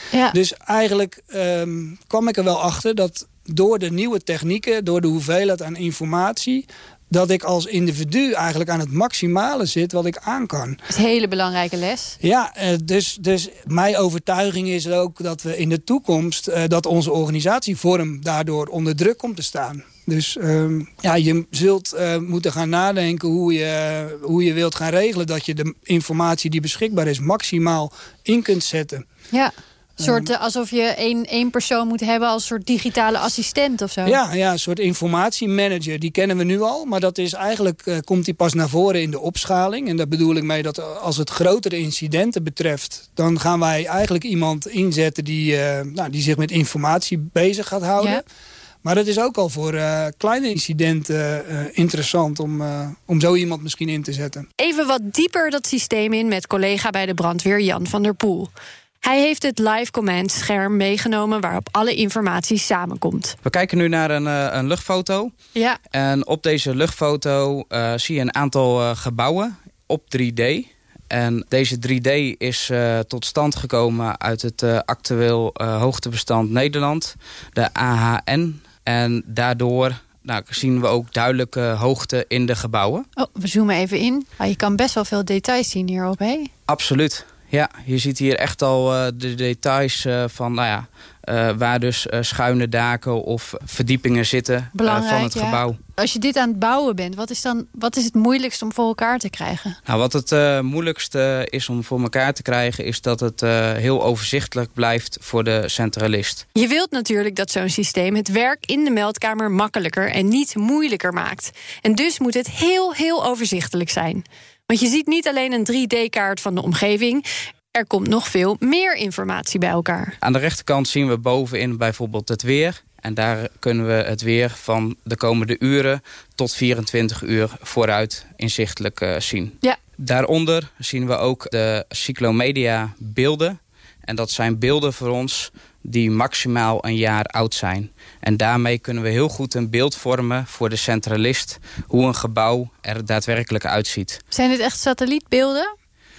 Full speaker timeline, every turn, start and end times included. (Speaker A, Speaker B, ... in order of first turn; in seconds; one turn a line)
Speaker A: 0.3-10.8
Speaker B: 10.9-12.2
Speaker A: 12.2-29.0
Speaker B: 29.3-34.2
Speaker A: 30.0-30.3
Speaker A: 34.0-48.2
Speaker A: 48.8-54.5
Speaker B: 54.6-58.5
Speaker B: 59.0-63.4
Speaker C: 63.4-65.3
Speaker C: 65.9-83.1
Speaker B: 83.2-86.5
Speaker C: 86.7-95.8
Speaker B: 94.7-99.8
Speaker C: 99.9-106.4
Speaker B: 106.5-120.2
Speaker C: 120.2-144.2
Speaker B: 144.3-145.7